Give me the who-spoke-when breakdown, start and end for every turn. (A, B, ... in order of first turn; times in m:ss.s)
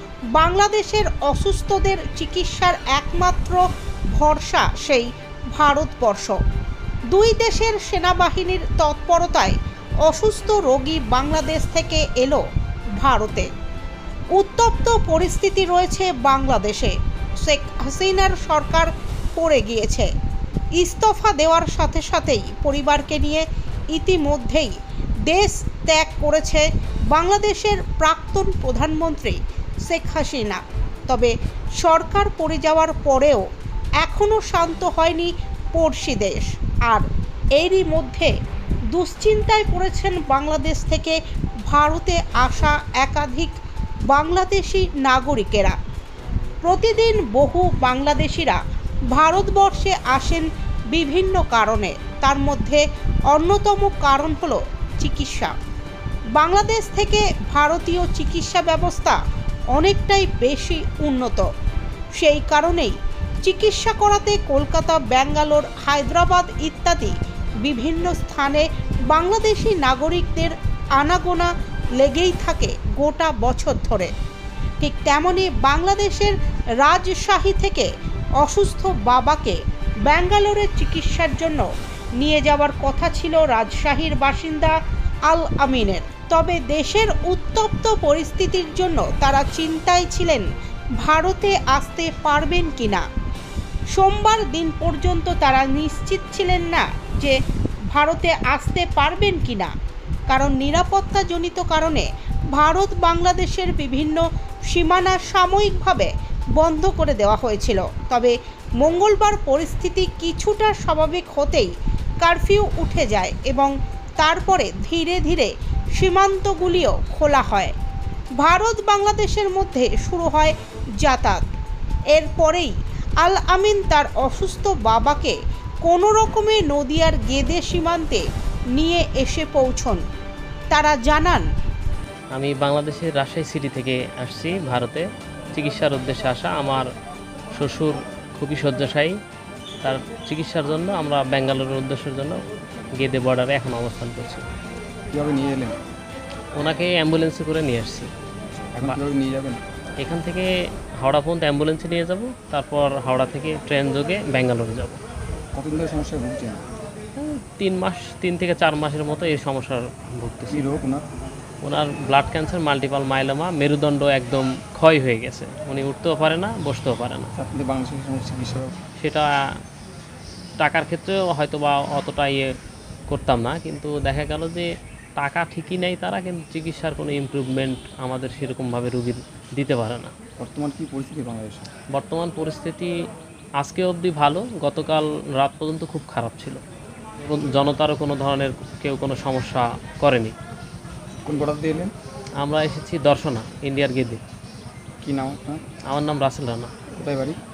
0:00.4-0:03.6 A
0:04.2-0:06.4 A
0:07.1-0:12.4 A
0:13.0-0:13.5 A
0:14.4-0:20.1 A
0:20.8-0:24.7 A
0:25.3-0:33.4 A
0:34.0-0:37.1 A
0:37.6-0:38.3 A
0:38.9-0:41.2 A
0:41.7-0:43.5 A
0:44.1-0:45.8 A
0:46.6-0:48.6 A
0:49.1-0:55.5 A
0:56.4-0:59.2 A
0:59.7-1:01.5 A
1:02.2-1:14.1 A
1:14.8-1:17.9 A
1:18.4-1:19.6 A
1:20.1-1:21.6 A
1:22.2-1:24.8 A
1:25.3-1:30.5 A
1:31.0-1:33.0 A
1:33.9-1:37.4 A
1:37.9-1:39.7 A
1:40.3-1:57.7 A
1:58.4-2:01.4 A
2:02.1-2:10.0 A
2:10.7-2:11.5 A
2:12.3-2:16.9 B
2:17.5-2:19.1 B
2:19.8-2:22.4 B
2:23.0-2:24.4 B
2:25.1-2:25.8 C
2:26.6-2:28.1 B
2:28.7-2:29.6 C
2:30.0-2:30.5 B
2:31.0-2:35.0 B
2:35.5-2:36.6 C
2:37.2-2:40.6 B
2:40.5-2:41.1 C
2:41.6-2:47.3 B
2:47.4-2:48.8 C
2:49.0-2:49.3 B
2:50.6-2:52.5 B
2:53.1-3:00.1 B
3:00.4-3:01.7 C
3:01.9-3:02.9 B
3:03.6-3:06.6 B
3:07.2-3:10.3 B
3:11.2-3:11.9 C
3:12.4-3:14.2 B
3:15.0-3:15.6 C
3:15.9-3:16.7 B
3:17.0-3:17.4 C